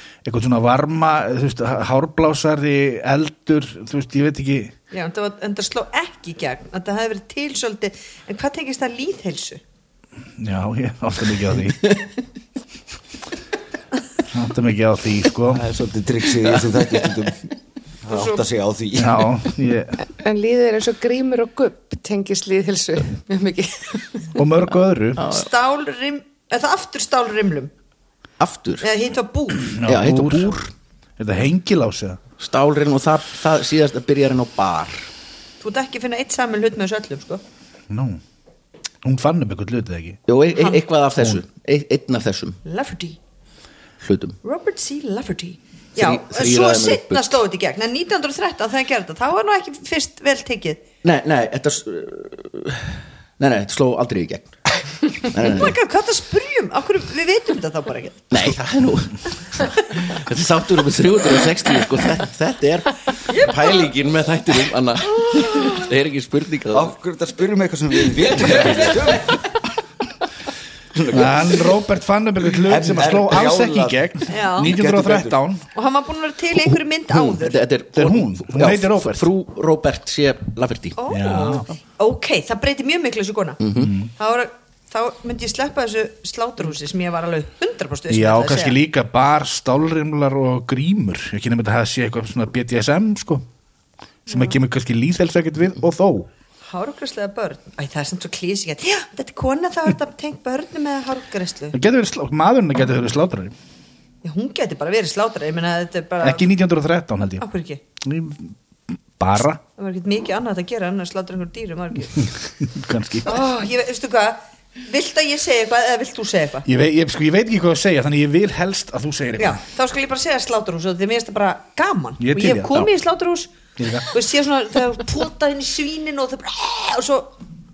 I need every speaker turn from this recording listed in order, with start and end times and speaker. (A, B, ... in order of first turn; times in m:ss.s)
0:00.2-0:04.7 A
0:04.9-0:09.6 B
0:10.4-0:11.9 A
0:14.3-0:15.6 A
0:15.5-0:17.5 C
0:18.0-0:19.3 C
0:18.1-0:18.4 B
0:19.0-0:20.0 A
0:20.1-0:24.3 D
0:24.4-0:25.3 A
0:25.2-0:25.5 E
0:25.3-0:27.7 B
0:28.4-0:28.9 E
0:28.8-0:29.7 B
0:29.6-0:30.6 A
0:29.8-0:30.7 E
0:31.2-0:32.2 A
0:32.4-0:35.1 E
0:35.6-0:37.4 B
0:37.9-0:38.2 A
0:39.0-0:40.2 A
0:40.3-0:42.6 E
0:40.5-0:40.8 B
0:42.6-0:43.2 B
0:44.0-0:44.4 E
0:44.4-0:50.8 B
0:46.0-0:47.4 E
0:51.0-0:55.8 E
0:55.4-0:58.4 B
0:58.3-1:06.9 E
1:03.3-1:03.9 B
1:05.1-1:05.9 B
1:06.7-1:09.4 C
1:08.2-1:09.2 E
1:10.9-1:11.7 C
1:11.1-1:15.6 A
1:12.6-1:14.0 C
1:14.3-1:14.7 B
1:14.6-1:15.4 C
1:15.8-1:17.6 B
1:17.1-1:21.0 E
1:18.0-1:19.3 A
1:21.0-1:23.6 B
1:21.1-1:21.6 A
1:23.6-1:23.9 E
1:23.8-1:24.1 A
1:24.2-1:28.8 B
1:28.1-1:33.5 A
1:34.3-1:36.3 A
1:36.7-1:41.8 B
1:41.7-1:43.5 A
1:44.2-1:46.5 B
1:46.2-1:47.4 A
1:47.4-1:47.8 B
1:48.0-1:48.5 A
1:49.2-1:49.6 A
1:49.8-1:52.3 B
1:52.2-1:53.4 A
1:53.2-1:56.7 B
1:56.6-1:59.6 A
1:59.4-2:03.5 B
2:02.2-2:02.8 A
2:03.8-2:04.1 A
2:04.1-2:07.4 B